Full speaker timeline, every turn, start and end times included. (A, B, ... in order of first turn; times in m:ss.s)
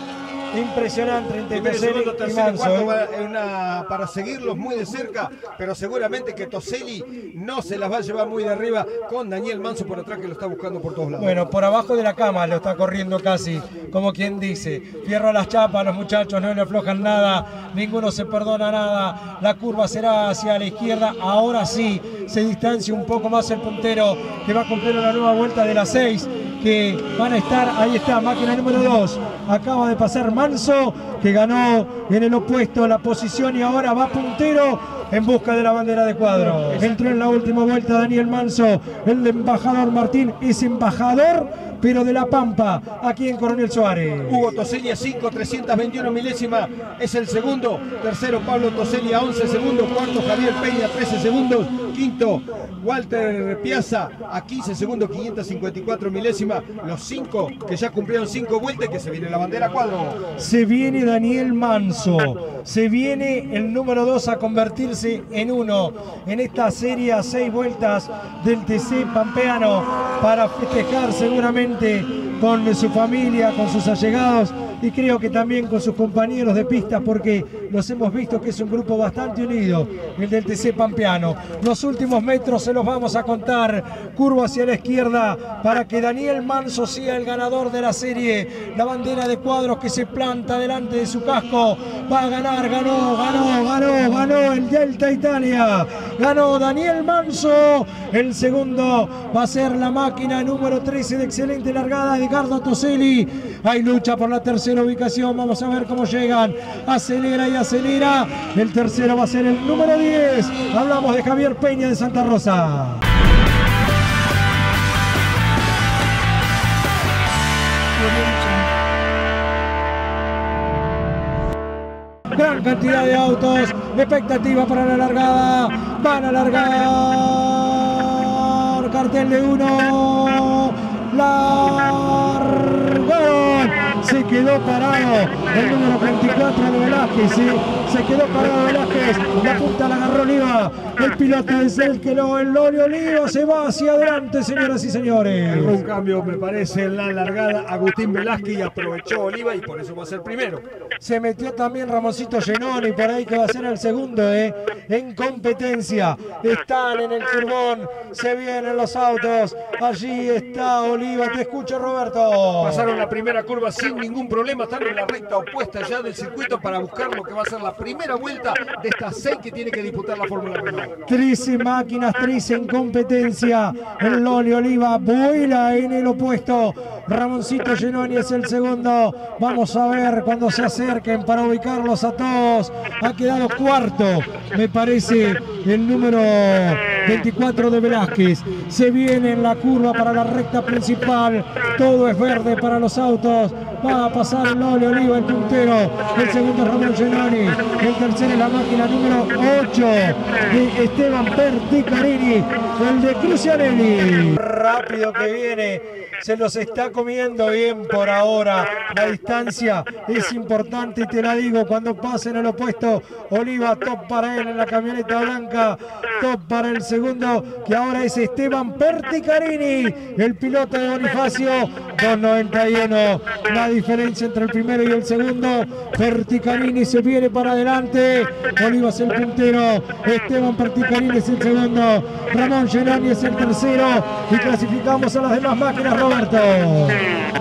0:00.5-0:02.9 A
0:01.5-0:11.4 B
0:11.2-0:44.4 A
0:36.5-0:36.8 B
0:44.2-1:00.2 B
1:00.4-1:53.0 A
2:02.3-2:25.8 A
2:25.5-2:30.6 B
2:31.0-2:42.9 A
2:42.6-2:50.9 B
2:51.1-3:57.0 A